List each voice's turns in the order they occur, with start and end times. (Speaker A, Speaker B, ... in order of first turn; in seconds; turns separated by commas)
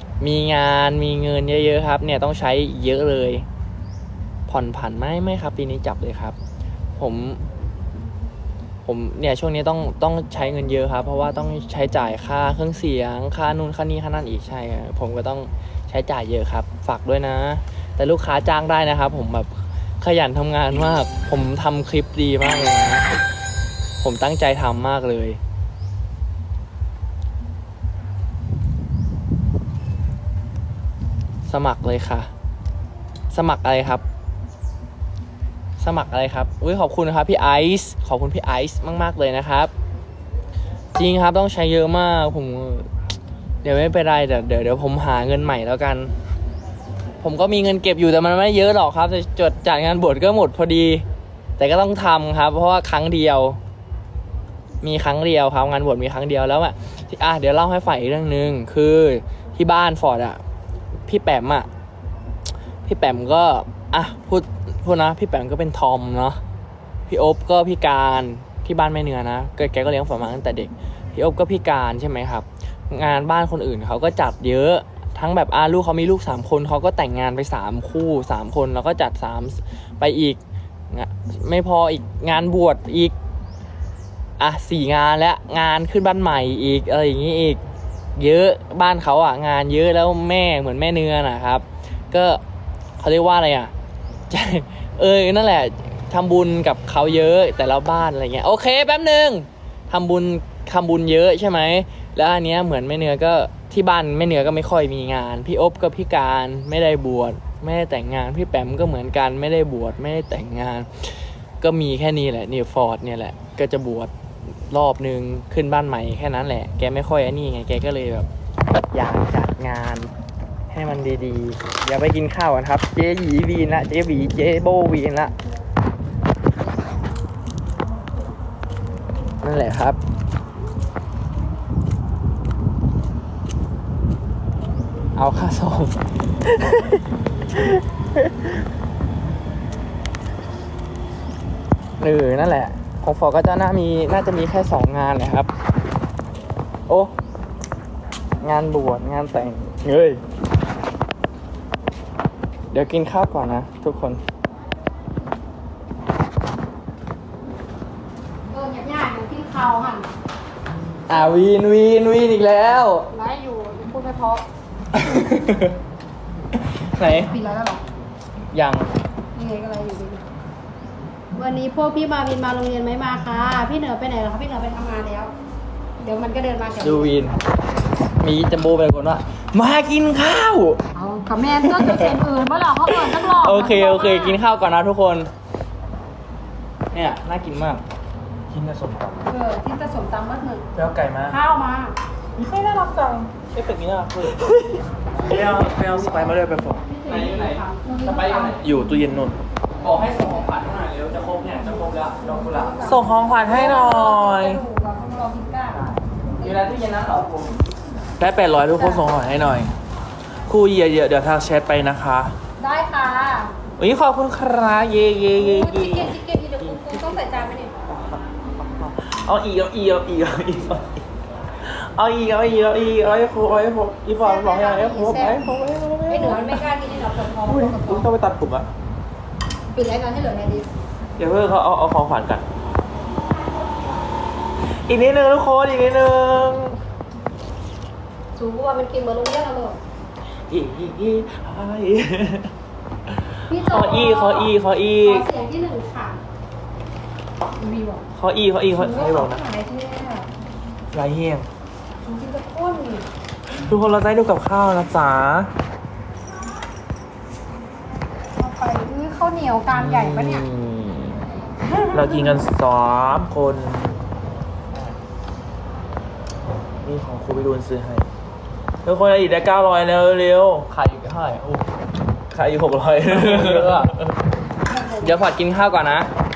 Speaker A: 0.2-3.5, Speaker A: 4.5-6.4, Speaker A: 7.0-7.4, Speaker A: 8.8-23.1, Speaker A: 24.0-25.4, Speaker A: 31.5-32.3, Speaker A: 33.3-34.0, Speaker A: 35.8-39.7, Speaker A: 41.0-42.9, Speaker A: 43.6-46.1, Speaker A: 47.2-51.0, Speaker A: 51.6-53.6, Speaker A: 54.8-60.4, Speaker A: 61.1-61.7, Speaker A: 62.9-66.4, Speaker A: 67.1-83.2, Speaker A: 84.4-87.6, Speaker A: 88.2-92.4, Speaker A: 93.0-93.7, Speaker A: 94.3-118.3, Speaker A: 118.9-120.1, Speaker A: 120.7-125.3, Speaker A: 129.4-130.0, Speaker A: 135.2-137.0, Speaker A: 137.5-138.6, Speaker A: 142.0-145.5, Speaker A: 146.9-147.1, Speaker A: 148.4-150.2, Speaker A: 152.7-154.2, Speaker B: 158.5-160.1, Speaker A: 161.1-163.1, Speaker B: 163.1-164.5, Speaker A: 164.9-165.8, Speaker A: 166.8-167.3, Speaker B: 167.1-167.8, Speaker A: 168.5-168.9, Speaker B: 169.3-170.2, Speaker B: 171.3-175.3, Speaker B: 176.0-177.3, Speaker A: 176.8-177.4, Speaker A: 178.2-180.8, Speaker B: 180.9-184.4, Speaker A: 181.4-182.2, Speaker A: 182.9-185.3, Speaker A: 186.9-187.8, Speaker C: 188.5-189.2, Speaker B: 189.2-190.7, Speaker C: 190.8-191.4, Speaker B: 191.3-192.0, Speaker C: 192.4-196.8, Speaker B: 196.9-198.6, Speaker A: 197.1-198.7, Speaker C: 198.6-199.4, Speaker A: 199.8-202.8, Speaker B: 202.4-206.5, Speaker C: 202.8-204.6, Speaker A: 206.4-207.6, Speaker C: 208.2-209.8, Speaker B: 208.8-209.1, Speaker C: 210.5-212.4, Speaker B: 212.6-213.6, Speaker C: 213.8-217.2, Speaker B: 215.4-217.7, Speaker C: 217.9-221.0, Speaker C: 221.6-226.7, Speaker B: 224.2-225.4, Speaker B: 226.1-228.1, Speaker C: 227.4-228.7, Speaker B: 229.7-230.7, Speaker C: 231.2-232.5, Speaker C: 234.7-236.8, Speaker B: 238.3-239.8, Speaker C: 240.5-242.5, Speaker C: 243.1-245.3, Speaker B: 243.5-246.2, Speaker B: 247.6-248.1, Speaker C: 248.2-249.4, Speaker B: 248.7-250.3, Speaker C: 250.9-251.5, Speaker B: 252.0-253.1, Speaker C: 253.5-255.5, Speaker B: 258.4-260.5, Speaker C: 259.7-261.3, Speaker A: 261.7-262.0, Speaker C: 261.8-264.0, Speaker C: 266.8-268.1, Speaker C: 268.8-270.7, Speaker A: 270.7-271.7, Speaker C: 272.3-274.1, Speaker A: 273.1-273.9, Speaker B: 274.7-275.2, Speaker A: 275.0-276.1